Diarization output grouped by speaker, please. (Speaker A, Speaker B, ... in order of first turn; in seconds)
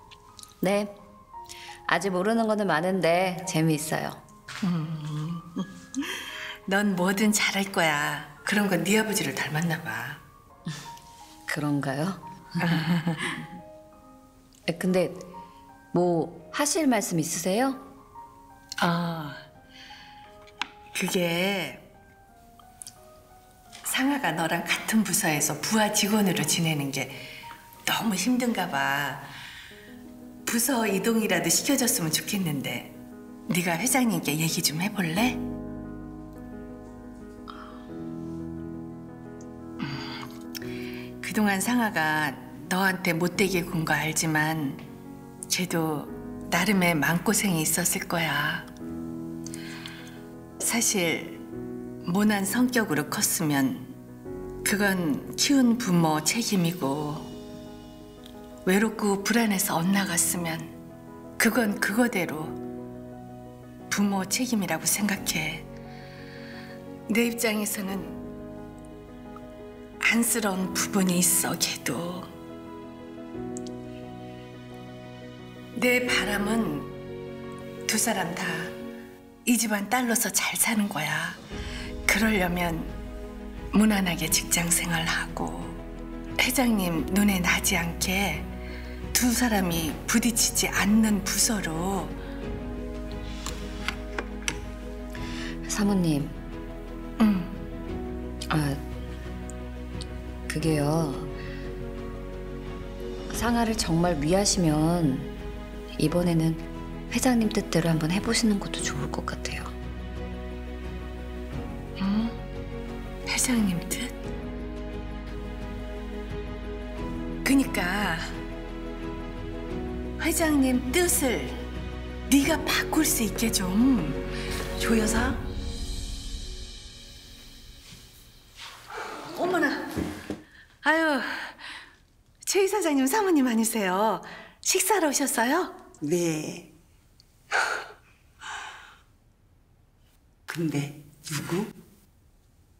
Speaker A: 0.6-1.0, 1.9-4.2, 11.5-12.9, 14.7-15.3, 15.9-17.8, 95.6-96.3, 98.5-98.8, 100.5-101.3, 103.3-105.3, 106.0-109.7
Speaker B: 4.6-10.2, 12.6-13.4, 18.8-19.4, 20.9-21.9, 23.8-27.2, 27.9-29.3, 30.4-33.0, 33.5-35.4, 39.8-40.1, 41.2-44.8, 45.5-48.7, 50.6-51.4, 52.0-53.9, 54.6-57.3, 58.6-60.7, 61.4-62.6, 63.9-65.7, 67.1-68.2, 70.0-72.3, 75.7-76.9, 77.9-78.7, 79.4-81.4, 82.0-82.9, 83.7-85.8, 86.4-88.5, 89.1-92.2, 97.2-97.6, 112.0-112.4, 113.3-114.1, 117.4-118.3, 120.2-121.7, 122.3-125.4, 129.3-129.9, 130.8-131.6, 132.4-135.9
Speaker C: 136.0-136.7, 140.5-141.7